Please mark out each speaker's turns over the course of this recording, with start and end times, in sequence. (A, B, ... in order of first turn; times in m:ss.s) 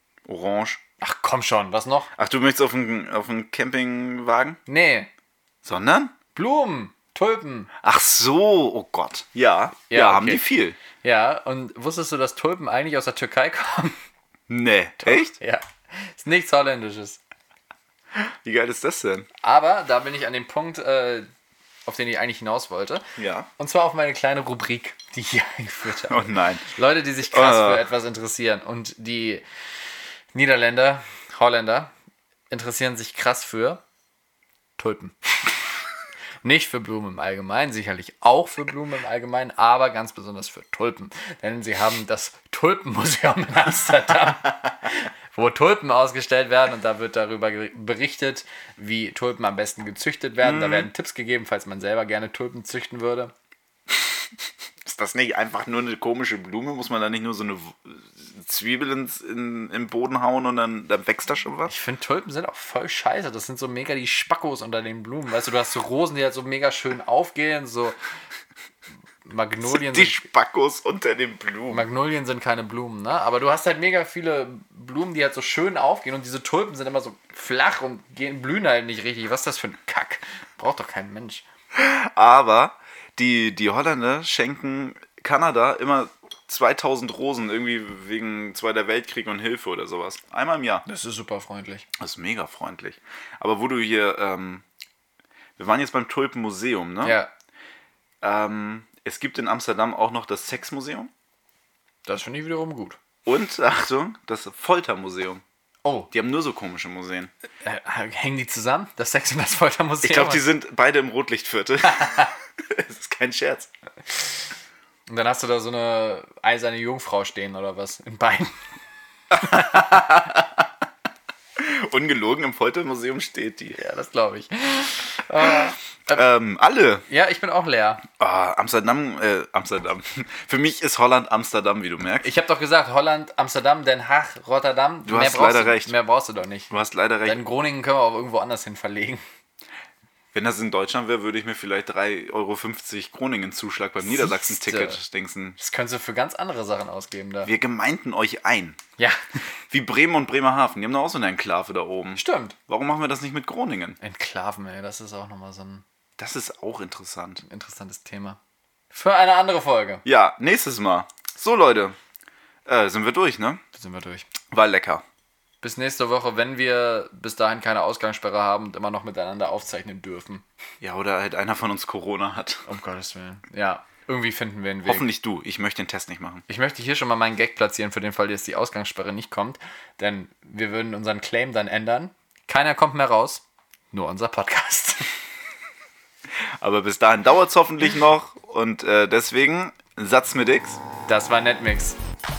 0:00.2-0:00.8 A
0:01.0-0:02.1 B
0:02.2-0:04.6 A
0:04.7-0:05.1 B
0:05.6-0:06.2 A
0:06.3-0:07.7 B
0:07.8-0:10.8 A
0:09.9-0:14.0 B
0:14.5-0:15.3 A
0:15.0-0:17.2 B
0:18.1-0:19.3 A
0:19.4-0:21.3 B
0:21.8-0:23.0 B
0:23.2-0:23.5 A
0:23.6-0:29.4 B
0:26.1-0:26.7 A
0:27.2-0:27.8 A
0:30.3-0:31.9 B
0:32.5-0:33.8 B
0:34.8-0:35.1 B
0:36.4-0:53.3 B
0:50.4-0:50.9 A
0:54.8-1:01.7 A
1:01.7-1:08.0 B
1:09.2-1:10.2 B
1:09.6-1:11.8 A
1:11.7-1:21.4 B
1:21.7-1:30.8 A
1:30.8-1:31.9 B
1:32.0-1:34.6 A
1:35.6-1:37.2 A
1:37.0-1:37.3 B
1:38.2-1:41.1 A
1:42.0-1:43.0 B
1:43.2-1:45.4 A
1:45.8-1:46.1 B
1:46.1-1:47.3 A
1:47.6-1:50.4 B
1:50.0-1:53.7 A
1:51.9-1:52.3 B
1:55.1-1:58.6 B
1:59.3-2:00.7 A
2:01.6-2:03.8 A
2:03.7-2:06.2 B
2:06.1-2:07.0 A
2:07.1-2:08.0 B
2:08.2-2:12.3 A
2:12.2-2:16.7 B
2:15.0-2:15.9 A
2:16.7-2:17.4 A
2:17.2-2:19.2 B
2:20.3-2:25.6 A
2:24.0-2:25.0 B
2:25.6-2:27.5 B
2:27.4-2:28.8 A
2:29.7-2:34.0 A
2:32.2-2:32.6 B
2:34.0-2:35.8 B
2:36.2-2:37.4 A
2:37.4-2:38.4 B
2:38.9-2:40.0 B
2:40.0-2:42.0 A
2:42.6-2:43.6 A
2:43.7-2:44.3 B
2:44.5-2:45.0 A
2:45.6-2:50.4 B
2:50.8-2:52.6 A
2:52.7-2:55.1 B
2:54.9-2:56.4 A
2:56.5-3:05.1 B
3:06.6-3:10.8 A
3:11.1-3:12.0 B